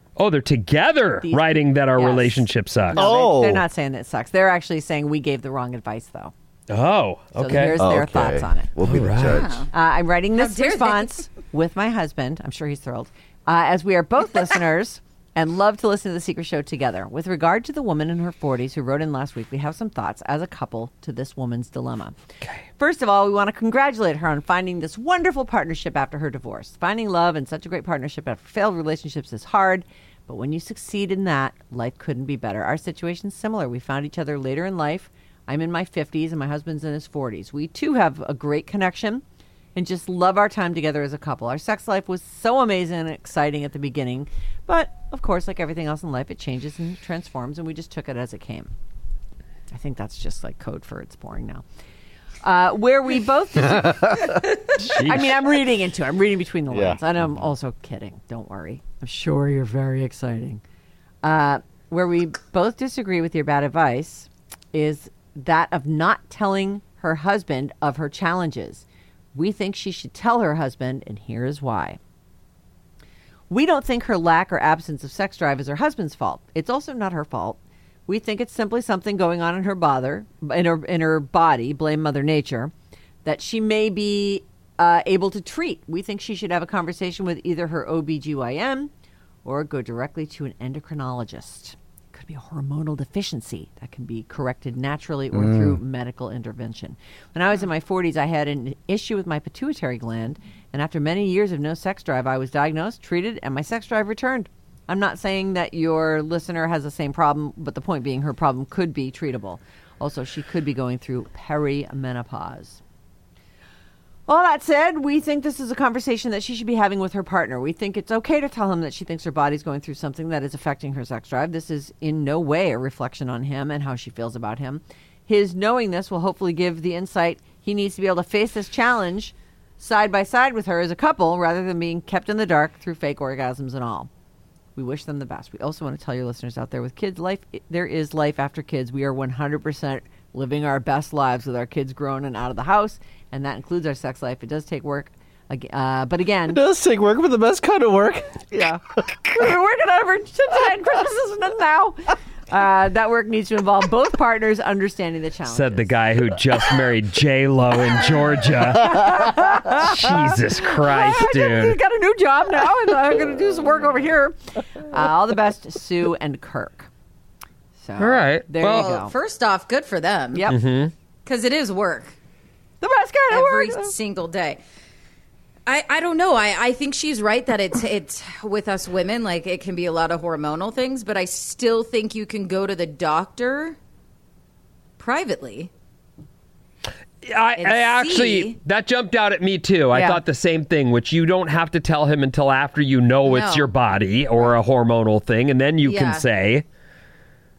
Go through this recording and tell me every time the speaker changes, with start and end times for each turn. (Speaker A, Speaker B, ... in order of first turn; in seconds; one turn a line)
Speaker A: 0.2-3.0
Speaker B: 1.2-6.3
Speaker C: 3.0-3.6
Speaker A: 6.7-7.8
Speaker B: 7.4-8.7
Speaker C: 7.8-9.7
Speaker A: 8.8-9.5
Speaker D: 9.2-9.7
Speaker B: 9.7-22.1
Speaker D: 10.4-11.2
Speaker B: 22.8-39.2
Speaker B: 39.8-48.7
Speaker B: 49.7-51.6
Speaker B: 52.4-54.4
Speaker C: 53.8-54.3
Speaker A: 54.8-55.5
Speaker B: 55.0-60.6
Speaker C: 56.7-57.0
Speaker B: 61.2-72.0
Speaker B: 73.5-82.7
Speaker B: 83.2-88.9
Speaker B: 89.5-112.8
Speaker C: 95.3-95.8
Speaker B: 114.3-134.1
Speaker B: 134.8-146.6
Speaker C: 146.5-148.8
Speaker B: 148.5-155.9
Speaker A: 155.5-161.8
Speaker B: 158.7-166.9
Speaker B: 167.8-169.1
Speaker A: 168.0-168.9
Speaker D: 168.6-170.5
Speaker A: 170.5-170.9
Speaker D: 171.2-172.2
Speaker B: 172.8-173.9
Speaker D: 173.3-174.6
Speaker D: 175.7-183.8
Speaker D: 185.0-185.7
Speaker A: 187.2-196.6
Speaker D: 187.6-188.5
Speaker B: 189.9-190.2
Speaker D: 193.2-193.7
Speaker D: 195.8-196.2